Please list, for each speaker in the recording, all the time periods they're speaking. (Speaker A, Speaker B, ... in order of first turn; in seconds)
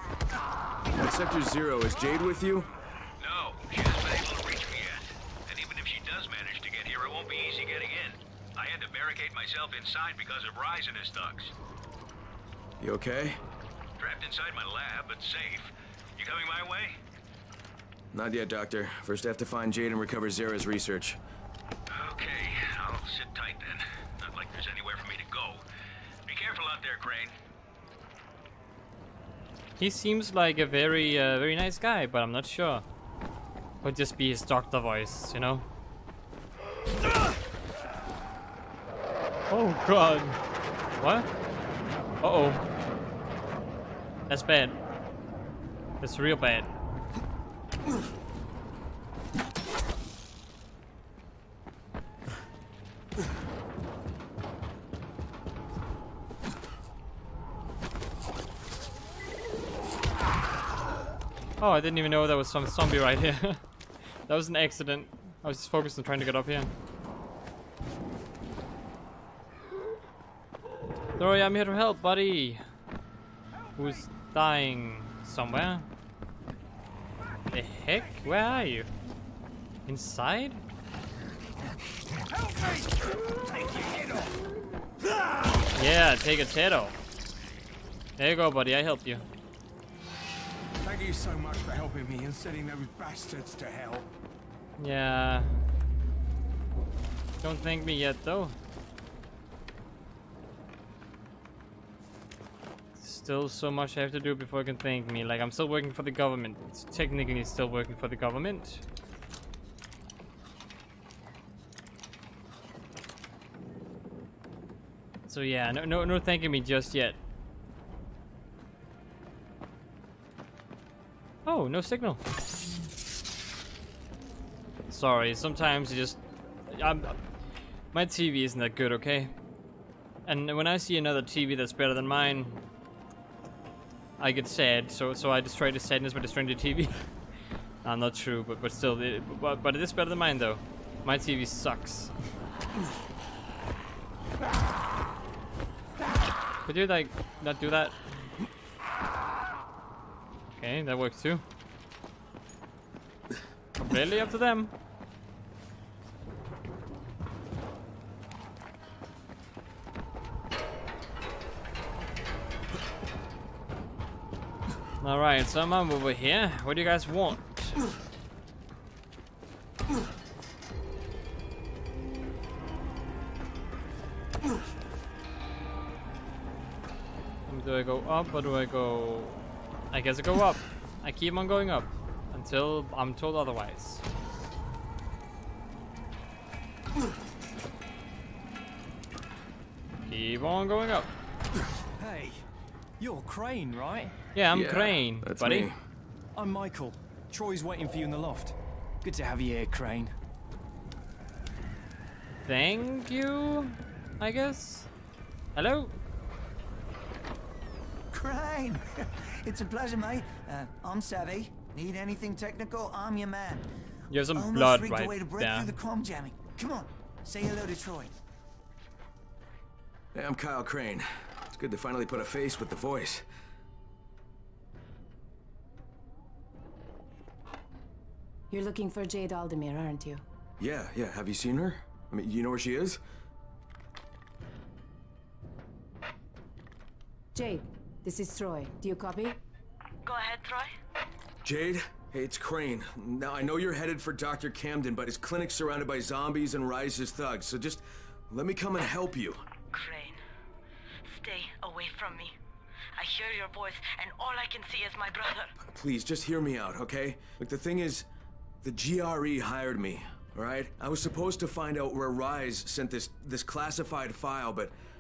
Speaker A: 0.9-2.7, 12.8-13.4, 18.1-21.2, 194.5-195.7, 220.1-223.2, 230.6-233.0, 241.4-249.4, 255.6-258.1, 258.6-264.7
Speaker B: 3.2-11.5, 14.0-16.9, 21.9-25.6, 26.3-27.4
Speaker C: 29.8-32.8, 33.8-35.7, 39.5-40.4, 41.0-41.3, 42.2-42.6, 44.3-44.8, 46.0-46.7, 61.6-63.6, 64.3-66.7, 71.2-72.6, 73.8-75.9, 77.5-78.9, 79.9-80.6, 85.8-87.0, 88.2-89.2, 94.8-95.5, 97.4-98.5, 103.0-108.8, 115.3-117.2, 121.5-122.2, 124.9-127.2, 127.9-129.3, 130.2-132.6, 134.2-137.0, 137.8-142.1, 146.6-148.0, 150.5-151.4, 153.8-154.7, 165.0-167.8, 177.5-184.0, 190.1-191.1, 194.3-195.7, 202.4-204.9, 205.6-205.9, 214.1-215.8
Speaker D: 82.3-84.4, 85.2-85.6, 90.8-94.1
Speaker E: 192.0-192.4, 193.0-194.1, 196.3-200.1
Speaker F: 208.1-213.6, 214.3-218.1
Speaker G: 228.5-230.2, 237.3-239.4
Speaker H: 240.0-240.7, 249.7-250.2, 251.1-252.3, 252.9-255.5